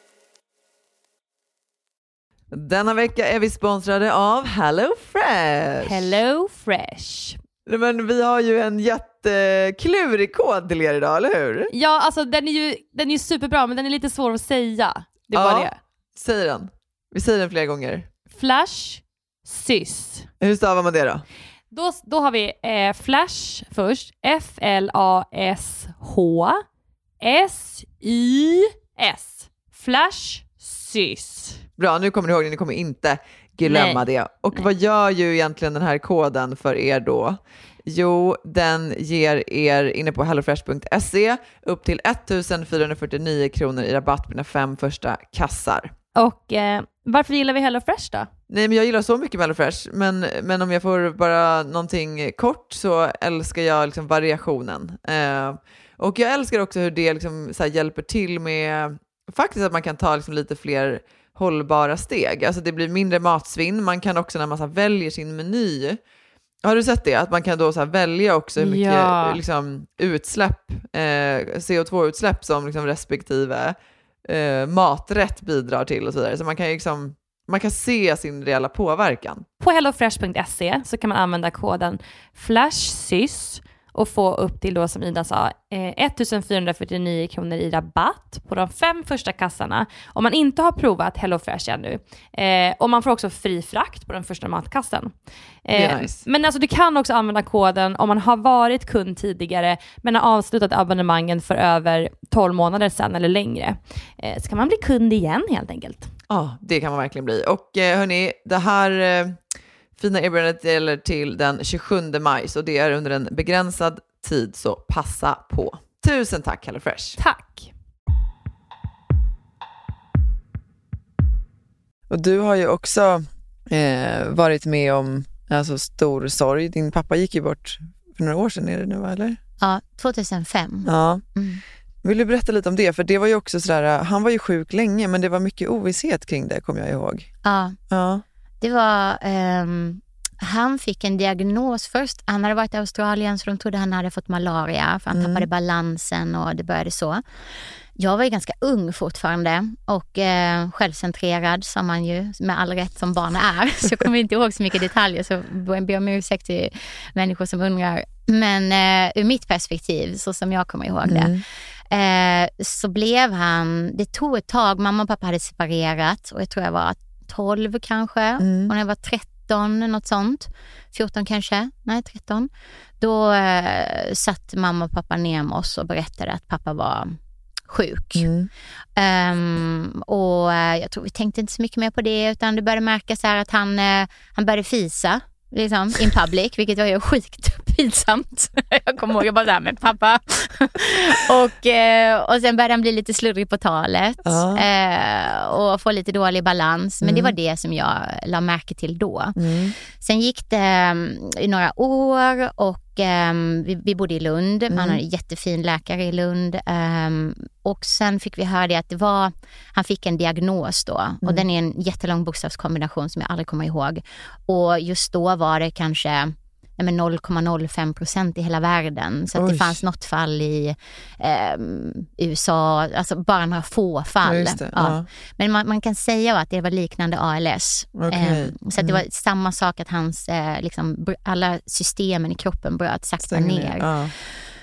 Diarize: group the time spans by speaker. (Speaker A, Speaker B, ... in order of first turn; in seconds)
Speaker A: 2.5-6.0, 7.7-11.7, 15.3-18.1, 20.4-21.2, 31.8-45.9, 48.5-66.0, 66.6-79.5, 95.7-96.2, 106.3-109.4, 110.0-117.2, 122.1-129.4, 130.9-131.2, 132.0-137.3, 137.9-138.2, 145.1-145.5, 161.1-161.4, 168.4-168.7, 178.2-178.5, 194.2-194.6, 197.0-197.3, 199.4-199.7, 204.7-205.0, 219.3-219.8, 224.2-225.1, 227.9-229.0, 233.2-234.1
Speaker B: 5.8-7.4, 11.7-15.8, 18.3-20.3, 21.7-26.6, 27.2-31.6, 33.6-34.7, 46.1-48.3, 68.6-69.4, 79.6-106.1, 117.2-117.7
Speaker C: 129.6-131.6, 137.4-137.8, 138.6-147.2, 148.0-161.3, 161.9-172.5, 173.0-177.2, 177.7-178.3, 178.9-234.4